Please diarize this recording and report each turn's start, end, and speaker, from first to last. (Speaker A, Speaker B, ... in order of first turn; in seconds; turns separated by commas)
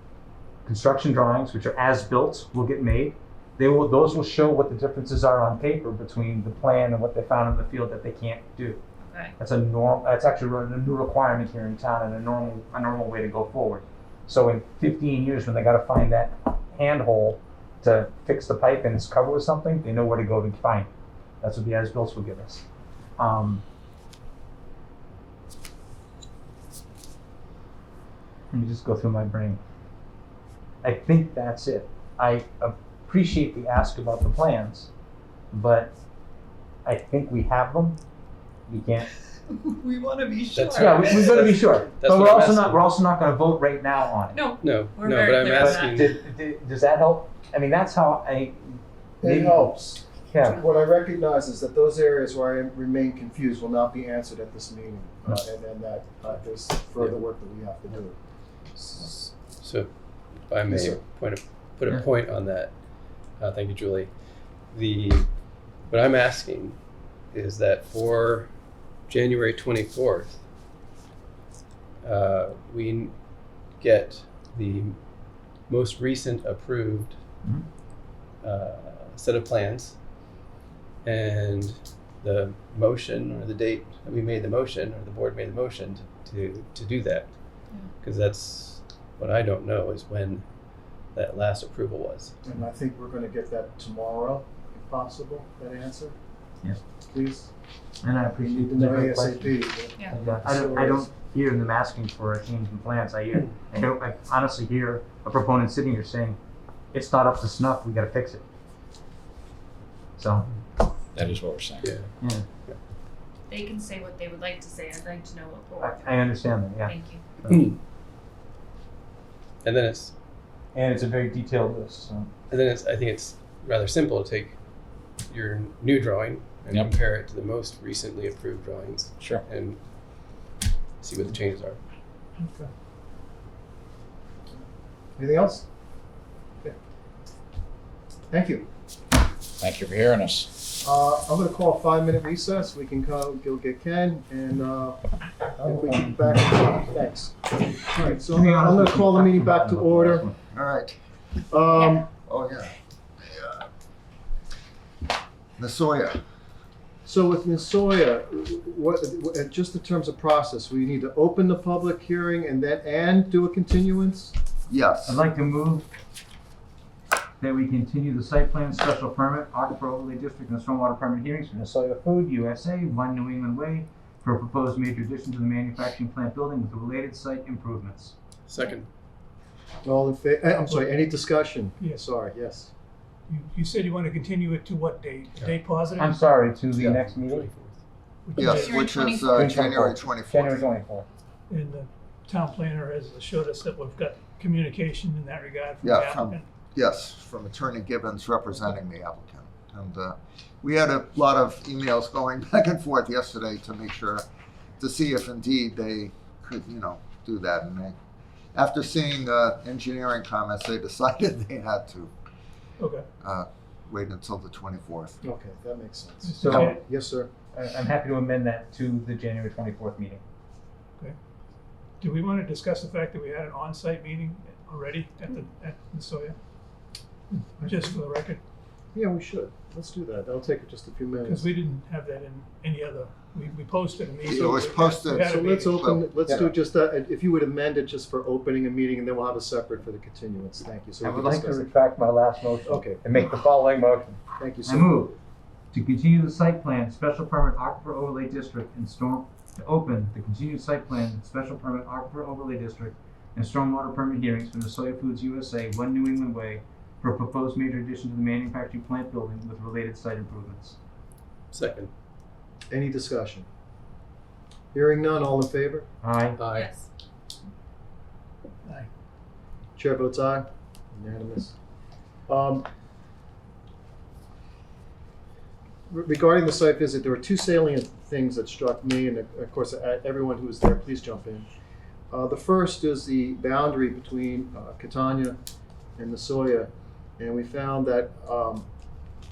Speaker A: 0.7-8.8, Speaker B: 9.0-9.3, Speaker A: 9.4-20.9, Speaker A: 21.4-22.7, Speaker A: 23.2-23.6, Speaker A: 28.5-29.6, Speaker A: 30.8-34.9, Speaker A: 35.5-35.9, Speaker A: 36.9-38.0, Speaker A: 38.7-39.1, Speaker B: 39.5-41.6, Speaker C: 40.5-42.9, Speaker A: 40.8-44.4, Speaker B: 44.3-46.1, Speaker C: 44.6-46.1, Speaker A: 45.5-50.6, Speaker D: 49.2-58.2, Speaker C: 58.7-70.4, Speaker D: 60.7-61.0, Speaker C: 72.0-77.2, Speaker C: 78.4-80.0, Speaker C: 81.0-92.3, Speaker B: 87.7-87.9, Speaker D: 92.4-96.2, Speaker D: 97.1-97.5, Speaker A: 98.0-106.4, Speaker D: 98.4-101.1, Speaker A: 106.9-108.4, Speaker A: 110.2-110.5, Speaker E: 111.2-111.9, Speaker C: 111.8-112.1, Speaker A: 112.2-112.5, Speaker B: 113.5-117.2, Speaker A: 115.8-117.7, Speaker C: 117.4-117.8, Speaker C: 119.6-120.2, Speaker A: 120.7-122.3, Speaker C: 122.5-130.5, Speaker E: 129.2-129.4, Speaker C: 131.0-131.8, Speaker D: 132.4-132.7, Speaker D: 135.2-135.7, Speaker D: 138.3-138.7, Speaker E: 139.6-140.6, Speaker D: 140.8-145.1, Speaker A: 145.6-146.4, Speaker D: 145.6-150.3, Speaker A: 147.9-150.4, Speaker F: 150.5-151.0, Speaker D: 151.5-152.1, Speaker B: 151.8-152.0, Speaker F: 152.3-153.7, Speaker F: 155.6-156.2, Speaker D: 157.1-164.3, Speaker F: 164.7-165.2, Speaker A: 165.1-165.9, Speaker A: 167.4-178.1, Speaker C: 178.5-178.9, Speaker D: 179.8-182.7, Speaker G: 183.3-186.1, Speaker A: 186.0-187.5, Speaker C: 186.7-187.8, Speaker G: 188.3-188.8, Speaker F: 188.3-190.7, Speaker B: 188.6-189.5, Speaker A: 189.3-191.1, Speaker G: 191.5-196.4, Speaker F: 195.8-204.2, Speaker F: 204.8-208.0, Speaker F: 208.5-212.1, Speaker F: 213.2-215.2, Speaker D: 215.2-217.3, Speaker G: 216.2-216.7, Speaker A: 216.4-216.8, Speaker A: 217.5-220.2, Speaker G: 222.0-226.4, Speaker G: 227.6-228.4, Speaker D: 227.7-227.9, Speaker D: 228.9-231.5, Speaker G: 231.3-235.6, Speaker F: 234.2-236.5, Speaker D: 235.2-241.7, Speaker A: 241.0-245.2, Speaker D: 242.7-243.0, Speaker D: 244.4-245.0, Speaker A: 245.7-260.8, Speaker C: 261.5-261.9, Speaker D: 262.7-263.5, Speaker D: 264.7-265.9, Speaker A: 266.0-266.4, Speaker C: 266.4-266.7, Speaker B: 266.5-266.9, Speaker D: 269.8-271.6, Speaker D: 272.3-272.7, Speaker D: 275.9-281.5, Speaker D: 282.1-285.4, Speaker D: 286.0-288.7